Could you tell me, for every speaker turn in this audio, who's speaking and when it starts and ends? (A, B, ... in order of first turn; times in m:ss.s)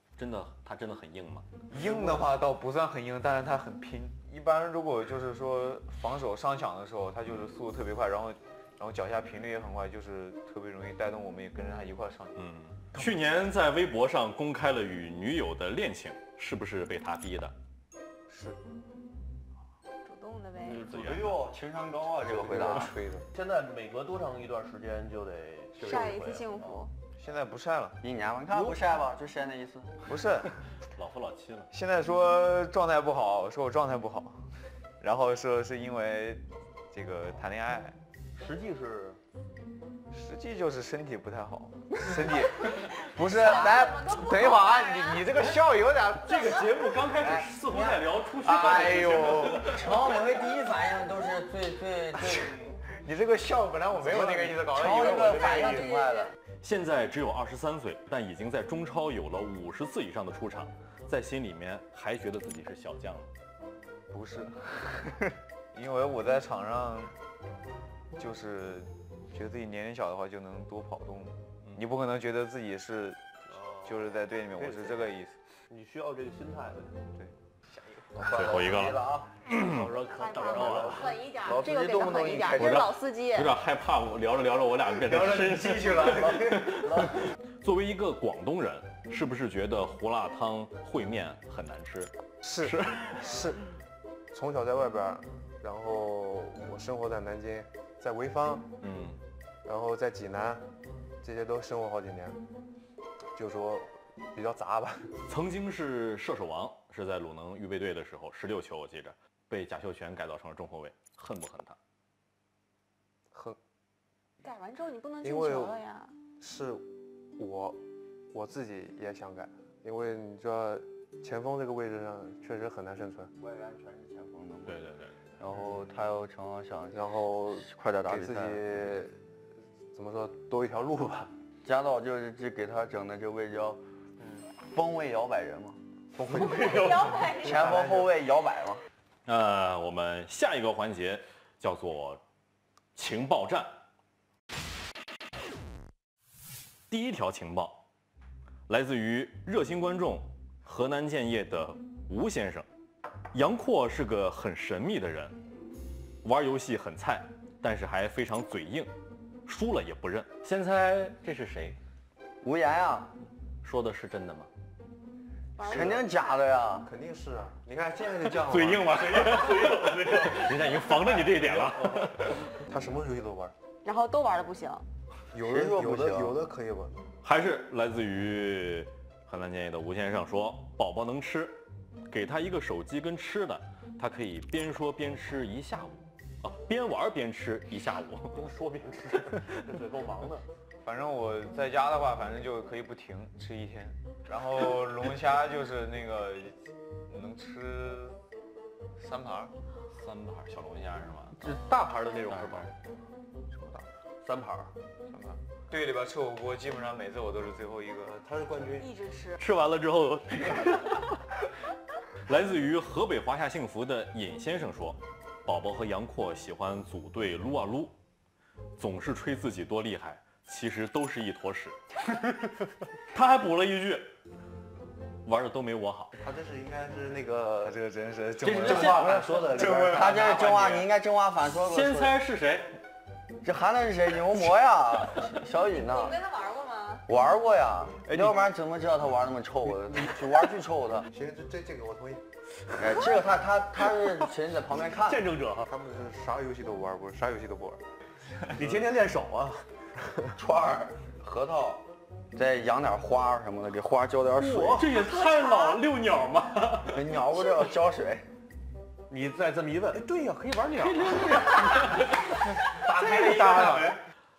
0:00.2-0:01.5 A
0:01.7-0:12.4 B
0:12.4-0:17.5 A
0:18.3-0:18.6 B
0:20.0-0:20.9 C
0:20.6-0:22.9 D
0:20.7-0:21.4 A
0:22.2-0:23.2 E
0:23.3-0:26.4 F
0:25.8-0:26.9 C
0:27.1-0:28.0 B
0:28.0-0:30.2 D
0:28.5-0:28.8 F
0:30.0-0:30.5 B
0:31.0-0:31.7 A
0:31.7-0:34.4 B
0:35.0-0:38.0 B
0:38.3-0:39.2 F
0:40.1-0:46.7 B
0:43.3-0:45.3 C
0:46.2-0:50.1 A
0:48.4-0:49.7 B
0:48.5-0:52.6 D
0:53.0-0:55.9 B
0:54.3-0:56.3 D
0:56.6-1:03.3 A
1:04.1-1:05.2 B
1:05.7-1:07.1 B
1:08.2-1:13.2 B
1:13.5-1:15.1 F
1:13.8-1:15.4 B
1:15.7-1:17.0 F
1:17.2-1:18.1 B
1:18.1-1:19.4 D
1:18.3-1:21.1 A
1:19.5-1:21.2 F
1:20.0-1:23.5 C
1:21.4-1:22.9 D
1:22.6-1:32.1 A
1:25.0-1:26.9 B
1:32.4-1:33.7 E
1:32.6-1:33.1 A
1:34.3-1:38.7 E
1:38.8-1:39.2 A
1:39.6-1:40.6 E
1:41.2-1:42.4 E
1:43.3-1:45.1 E
1:45.3-1:51.8 A
1:53.3-1:53.6 E
1:54.4-1:56.1 C
1:55.2-1:55.8 E
1:56.4-2:03.3 E
2:03.4-2:04.8 D
2:04.6-2:05.2 A
2:05.4-2:08.7 D
2:06.9-2:09.2 E
2:09.9-2:11.3 E
2:11.6-2:13.8 D
2:14.2-2:14.5 F
2:14.6-2:15.8 D
2:16.1-2:18.1 E
2:16.2-2:17.3 F
2:16.5-2:17.7 C
2:17.4-2:18.8 D
2:19.2-2:22.2 A
2:23.0-2:23.8 A
2:26.9-2:27.8 A
2:28.7-2:32.6 A
2:33.3-2:35.4 A
2:36.2-2:38.9 A
2:39.4-2:41.8 A
2:42.4-2:43.1 D
2:43.6-2:44.5 A
2:45.6-2:46.0 C
2:45.6-2:46.9 D
2:45.6-2:46.0 E
2:46.8-2:49.6 E
2:48.2-2:52.4 A
2:51.5-2:53.5 E
2:53.8-2:54.8 C
2:55.3-2:57.0 E
2:55.4-2:56.4 D
2:57.2-3:08.4 A
3:08.3-3:10.5 F
3:10.8-3:16.6 B
3:17.1-3:18.2 B
3:19.0-3:19.5 B
3:19.9-3:21.4 A
3:21.4-3:22.7 F
3:22.3-3:22.7 A
3:24.2-3:24.7 F
3:25.1-3:25.4 E
3:25.7-3:28.2 B
3:28.0-3:28.9 E
3:28.8-3:29.4 C
3:29.4-3:31.1 F
3:32.2-3:37.9 A
3:38.8-3:44.1 A
3:45.2-3:46.2 A
3:46.2-3:47.8 E
3:47.6-3:50.8 B
3:48.4-3:49.6 A
3:48.5-3:50.2 E
3:49.8-3:52.2 D
3:51.5-3:52.8 A
3:53.4-3:56.2 D
3:55.7-3:57.0 C
3:57.1-4:01.1 D
3:59.8-4:00.1 F
4:01.1-4:02.2 E
4:02.8-4:05.3 D
4:04.9-4:05.7 F
4:05.6-4:07.8 E
4:08.5-4:09.7 F
4:10.4-4:15.0 D
4:14.3-4:14.9 F
4:14.8-4:17.1 A
4:15.0-4:15.8 C
4:16.8-4:18.3 D
4:19.1-4:21.8 F
4:20.8-4:22.3 A
4:22.8-4:24.0 B
4:23.0-4:23.9 F
4:23.0-4:24.0 A